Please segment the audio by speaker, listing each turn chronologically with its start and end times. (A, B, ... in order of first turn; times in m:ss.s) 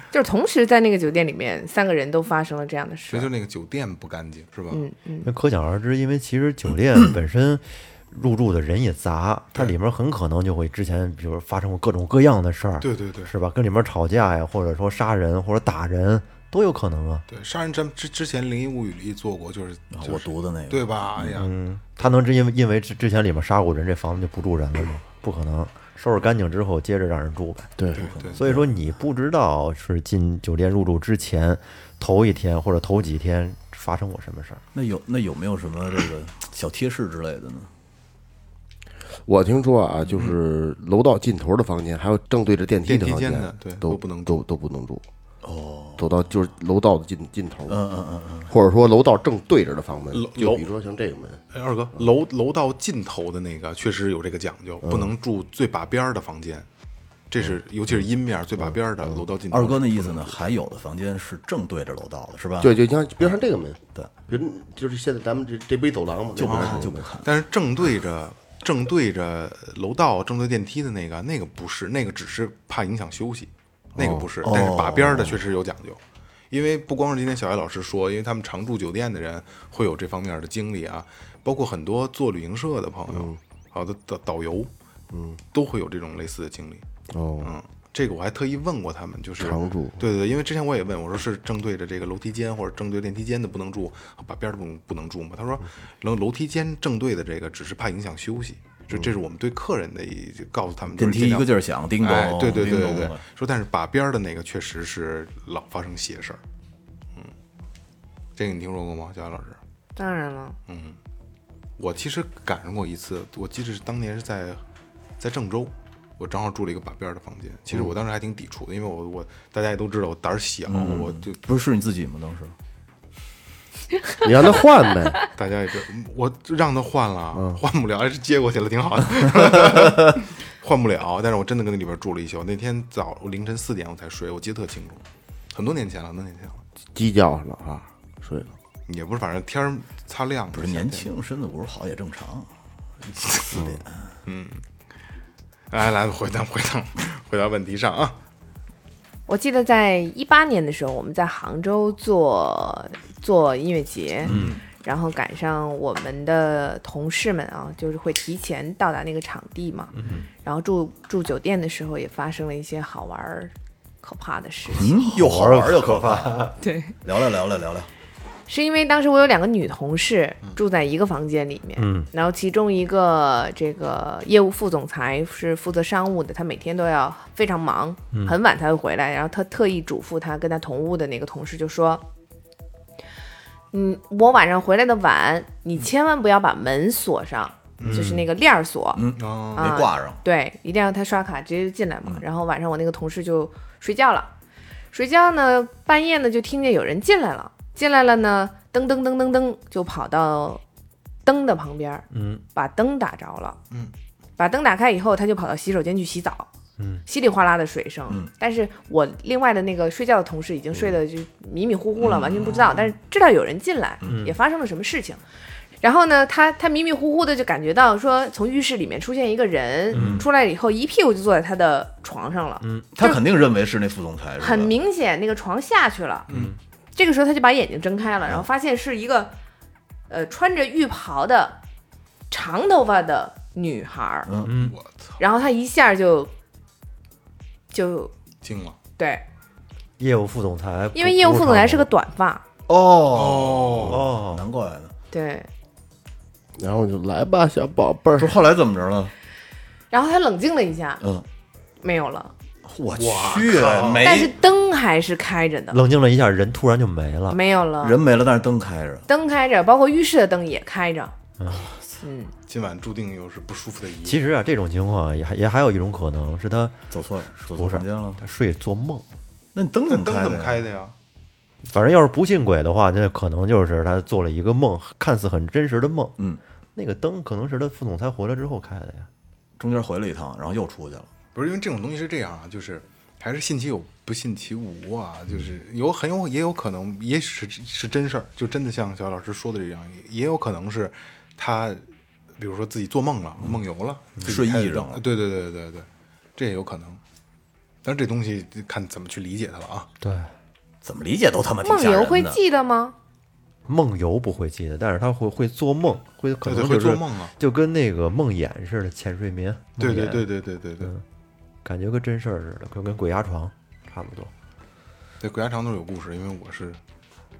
0:00.1-0:03.3 A
0:03.1-0:04.8 B
0:04.7-0:05.3 A
0:05.2-0:17.2 C
0:12.8-0:13.3 B
0:17.3-0:21.5 B
0:19.9-0:21.4 D
0:21.4-0:27.7 C
0:27.8-0:28.0 E
0:27.9-0:28.4 B
0:27.9-0:28.7 D
0:28.4-0:34.6 C
0:34.7-0:37.7 D
0:39.2-0:45.0 E
0:42.8-0:44.4 B
0:45.4-0:46.1 D
0:46.0-0:47.8 E
0:47.7-0:48.5 D
0:48.5-0:51.4 E
0:50.1-0:50.7 B
0:51.5-0:56.7 B
0:54.8-0:55.1 E
0:57.3-1:00.4 B
0:59.5-1:02.7 D
1:02.6-1:07.1 E
1:06.4-1:07.3 D
1:06.5-1:24.7 B
1:14.0-1:15.4 D
1:23.1-1:23.4 E
1:25.1-1:25.4 E
1:25.5-1:26.8 B
1:27.1-1:27.5 E
1:27.4-1:46.4 B
1:29.4-1:30.0 E
1:41.0-1:43.2 D
1:48.4-1:49.6 B
1:50.0-1:50.6 A
1:50.7-1:51.0 B
1:51.8-1:54.6 B
1:55.2-2:01.4 B
2:00.7-2:02.5 D
2:04.2-2:05.2 E
2:05.3-2:16.6 B
2:07.3-2:07.6 E
2:16.9-2:18.5 E
2:18.9-2:21.1 B
2:20.5-2:22.5 D
2:23.0-2:24.1 D
2:23.5-2:23.8 E
2:24.2-2:24.6 B
2:25.7-2:28.2 B
2:29.3-2:34.3 A
2:34.3-2:34.6 B
2:34.3-2:34.6 D
2:34.3-2:34.5 C
2:34.8-2:39.9 A
2:39.9-2:40.3 C
2:40.4-2:45.0 A
2:44.7-2:47.9 D
2:45.1-2:46.5 C
2:46.6-2:46.9 A
2:48.5-3:02.0 A
2:51.8-2:52.1 C
3:03.7-3:09.0 A
3:07.8-3:08.1 B
3:07.8-3:08.2 C
3:08.9-3:10.2 D
3:09.1-3:09.7 B
3:09.5-3:14.3 A
3:14.9-3:20.6 A
3:21.2-3:23.6 A
3:22.1-3:22.4 C
3:24.4-3:26.5 A
3:26.8-3:27.0 C
3:27.0-3:35.2 A
3:34.0-3:34.4 C
3:35.8-3:43.2 A
3:39.9-3:40.2 D
3:39.9-3:40.2 C
3:42.6-3:42.9 C
3:42.9-3:44.7 D
3:44.4-3:46.3 A
3:46.3-3:46.6 C
3:46.9-3:49.3 A
3:50.1-3:51.6 A
3:52.3-3:54.3 A
3:54.3-3:54.5 D
3:54.4-3:54.8 C
3:54.6-3:55.2 B
3:55.2-3:56.3 A
3:57.7-3:58.1 A
3:58.4-3:58.8 B
3:59.0-3:59.2 A
4:00.0-4:01.9 C
4:00.9-4:02.4 A
4:02.7-4:04.9 D
4:03.1-4:04.0 B
4:03.9-4:04.5 C
4:05.1-4:05.5 A
4:06.6-4:08.3 E
4:08.2-4:09.1 D
4:09.9-4:11.0 A
4:11.8-4:12.3 A
4:12.6-4:14.4 D
4:12.9-4:14.1 B
4:14.0-4:15.8 A
4:15.7-4:17.4 C
4:17.3-4:18.0 A
4:17.8-4:19.1 D
4:19.1-4:21.1 A
4:21.4-4:21.7 C
4:21.7-4:21.9 D
4:22.0-4:22.3 A
4:22.5-4:24.2 B
4:24.0-4:26.8 C
4:26.9-4:28.2 D
4:27.4-4:29.0 C
4:29.5-4:30.6 D
4:29.9-4:30.9 B
4:31.6-4:36.2 C
4:36.7-4:39.1 C
4:39.6-4:41.1 D
4:41.3-4:51.8 B
4:52.4-4:57.0 B
4:54.2-4:55.0 D
4:57.8-4:59.9 B
5:00.0-5:00.3 C
5:00.8-5:02.4 D
5:01.6-5:02.9 A
5:03.6-5:10.2 C
5:06.4-5:07.3 B
5:09.8-5:10.9 B
5:11.6-5:14.3 C
5:15.2-5:16.8 B